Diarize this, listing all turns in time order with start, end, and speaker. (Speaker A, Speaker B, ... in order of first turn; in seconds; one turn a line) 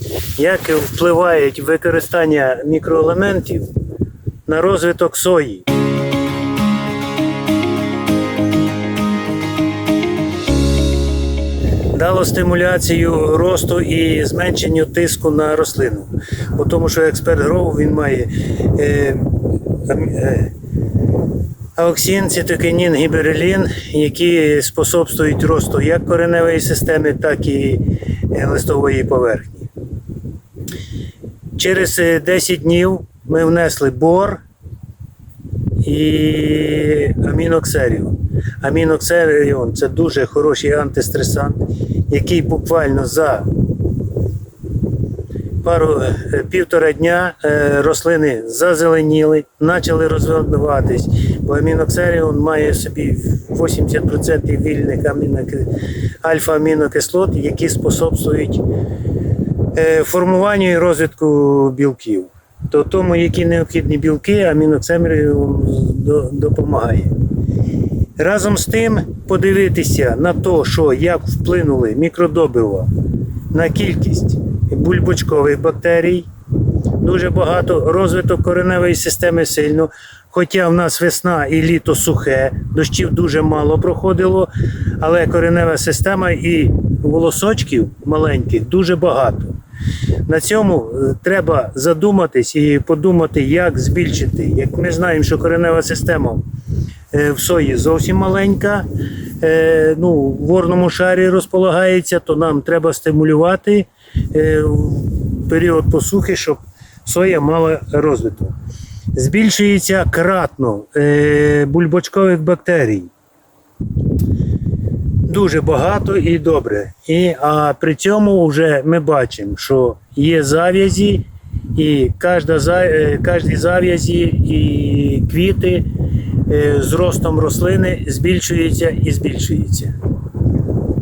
Speaker A: 0.4-3.7
Speaker A: 4.5-5.7
Speaker A: 11.9-20.6
Speaker A: 21.8-29.7
Speaker A: 31.6-34.4
Speaker A: 35.8-43.6
Speaker A: 45.6-58.7
Speaker A: 59.7-67.2
Speaker A: 68.2-72.9
Speaker A: 73.5-76.3
Speaker A: 77.0-89.6
Speaker A: 90.3-96.4
Speaker A: 97.1-98.9
Speaker A: 99.4-108.6
Speaker A: 109.1-113.1
Speaker A: 115.3-129.9